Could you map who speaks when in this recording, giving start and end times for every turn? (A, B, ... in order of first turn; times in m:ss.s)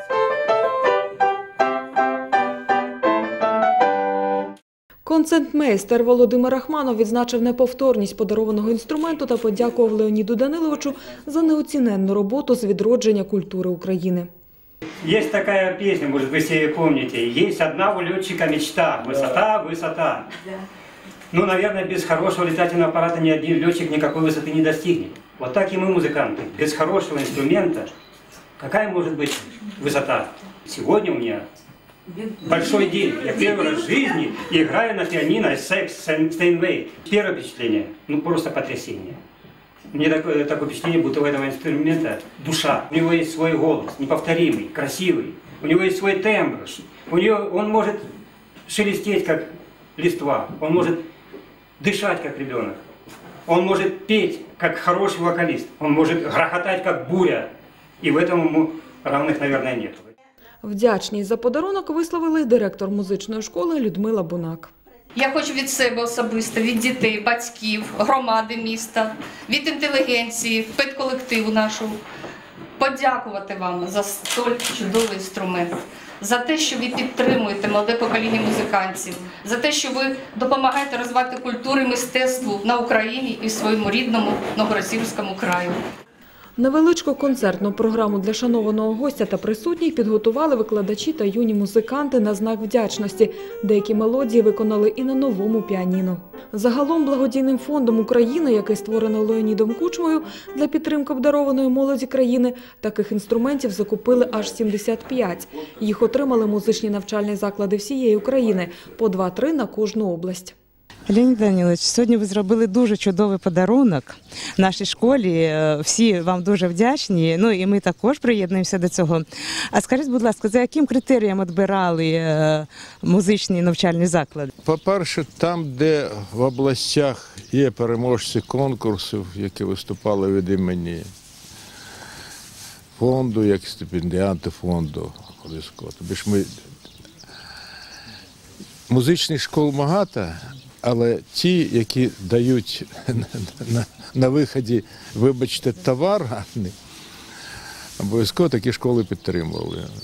0:05.0-0:14.3 A
0:15.0-0:20.3 B
0:21.3-0:27.9 B
0:28.6-0:31.5 B
0:32.3-0:39.2 B
0:39.9-0:48.1 B
0:48.7-0:51.0 B
0:51.8-0:52.8 B
0:53.5-0:57.5 B
0:58.0-1:00.1 B
1:00.6-1:04.7 A
1:05.2-1:12.0 C
1:12.8-1:25.8 C
1:26.6-1:50.6 A
1:51.1-2:04.5 D
2:04.6-2:11.1 E
2:13.0-2:16.6 E
2:18.9-2:26.8 E
2:28.0-2:29.9 E